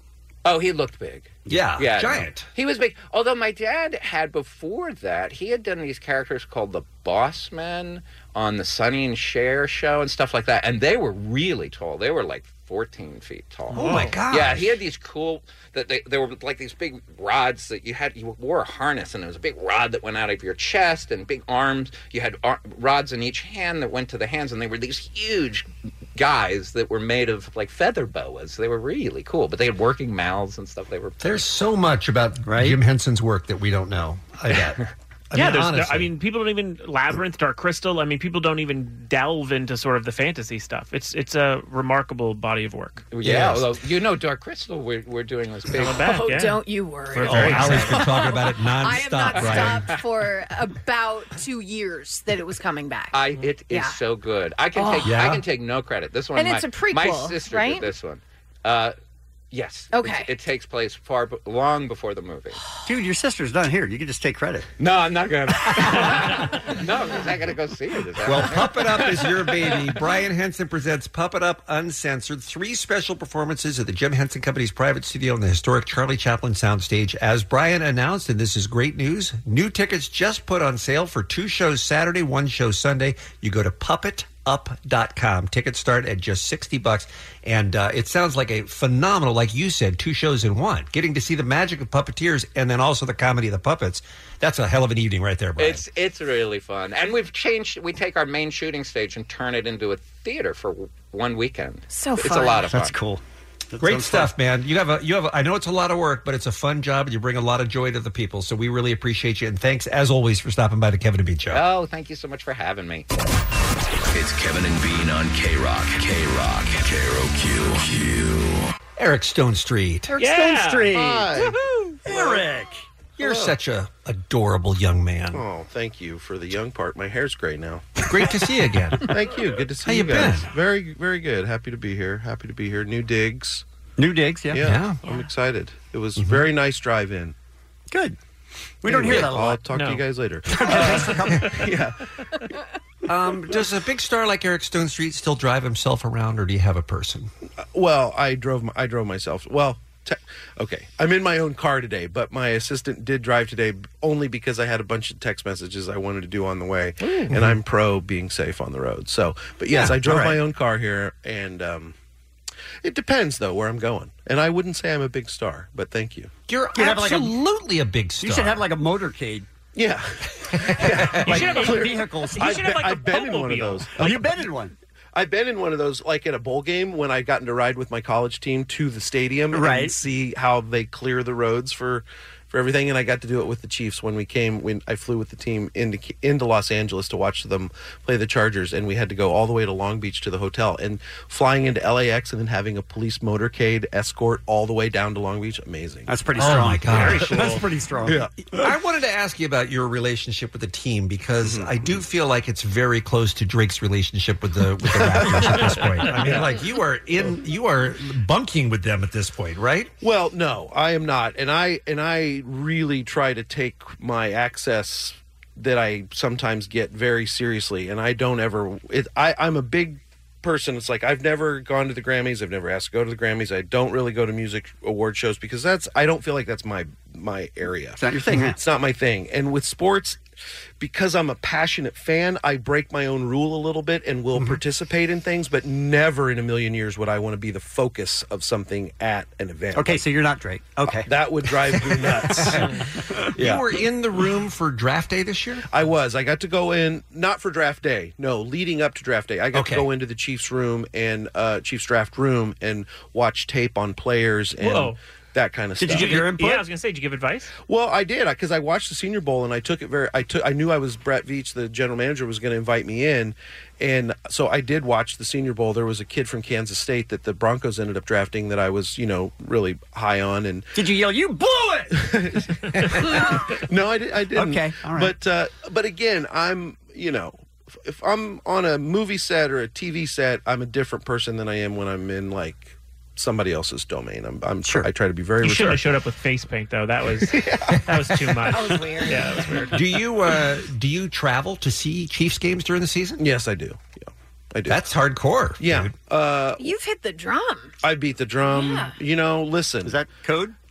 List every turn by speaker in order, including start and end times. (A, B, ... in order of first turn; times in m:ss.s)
0:00.4-0:31.4 A
0:01.5-0:02.5 B
0:13.7-0:14.8 B
0:13.8-0:14.1 C
0:31.2-0:36.1 B
0:32.4-0:32.8 D
0:35.3-0:43.1 C
0:43.1-0:46.2 A
0:43.2-0:43.7 B
0:45.7-0:46.6 C
0:46.0-0:53.2 E
0:47.1-0:48.1 C
0:47.2-0:49.8 B
0:49.4-0:50.0 A
0:53.1-0:59.0 A
0:53.7-0:54.0 E
0:54.8-0:55.1 E
0:55.0-0:55.4 B
0:56.3-0:57.9 E
0:59.5-1:02.6 A
0:59.9-1:00.3 E
1:02.8-1:04.7 D
1:04.8-1:09.8 A
1:08.2-1:35.8 B
1:35.6-1:43.0 A
1:41.9-1:42.6 E
1:42.6-1:44.3 D
1:43.8-1:51.6 B
1:51.5-1:53.1 A
1:54.1-1:58.7 F
1:59.0-2:00.1 B
2:00.1-2:00.4 E
2:00.2-2:01.4 C
2:00.2-2:01.5 D
2:00.9-2:02.4 G
2:02.0-2:02.8 D
2:03.2-2:03.6 G
2:03.2-2:05.4 B
2:05.3-2:08.0 G
2:08.0-2:09.2 B
2:09.0-2:13.6 G
2:09.8-2:10.5 B
2:14.0-2:14.7 D
2:14.5-2:17.3 G
2:14.6-2:15.1 B
2:16.2-2:16.5 B
2:17.9-2:18.2 D
2:18.8-2:19.6 D
2:18.8-2:22.4 G
2:19.7-2:20.0 C
2:20.5-2:21.7 D
2:20.7-2:21.1 C
2:23.1-2:27.3 B
2:27.7-2:42.0 G
2:37.3-2:37.6 B
2:39.7-2:40.4 D
2:42.8-2:46.3 G
2:46.5-2:48.6 B
2:46.7-2:47.3 D
2:48.2-2:49.5 D
2:49.7-2:54.4 G
2:50.6-2:51.5 B
2:51.1-2:52.6 D
2:51.2-2:53.9 C
2:54.0-2:54.7 D
2:55.1-3:16.2 G
2:59.5-2:59.9 D
3:16.1-3:18.2 D
3:16.4-3:17.5 B
3:17.0-3:18.6 G
3:17.2-3:17.6 C
3:18.5-3:29.9 B
3:21.4-3:22.0 G
3:24.8-3:26.4 G
3:30.0-3:50.2 G
3:48.0-3:48.6 D
3:50.8-4:00.0 G
3:59.7-4:02.6 D
4:00.9-4:02.7 G
4:03.2-4:03.6 D
4:03.4-4:05.6 B
4:05.7-4:16.2 G
4:09.5-4:09.9 B
4:14.6-4:15.0 C
4:15.8-4:16.6 D
4:15.8-4:17.5 C
4:17.6-4:30.7 G
4:30.7-4:32.0 D
4:31.9-4:45.9 G
4:34.3-4:35.2 D
4:45.4-4:49.8 C
4:47.2-4:48.5 G
4:48.5-4:49.5 E
4:49.7-4:53.2 B
4:53.2-4:54.8 G
4:54.7-4:55.9 B
4:55.6-4:56.7 G
4:56.6-4:57.7 E
4:57.8-5:00.0 G
4:58.5-4:58.9 E
4:59.8-5:00.5 D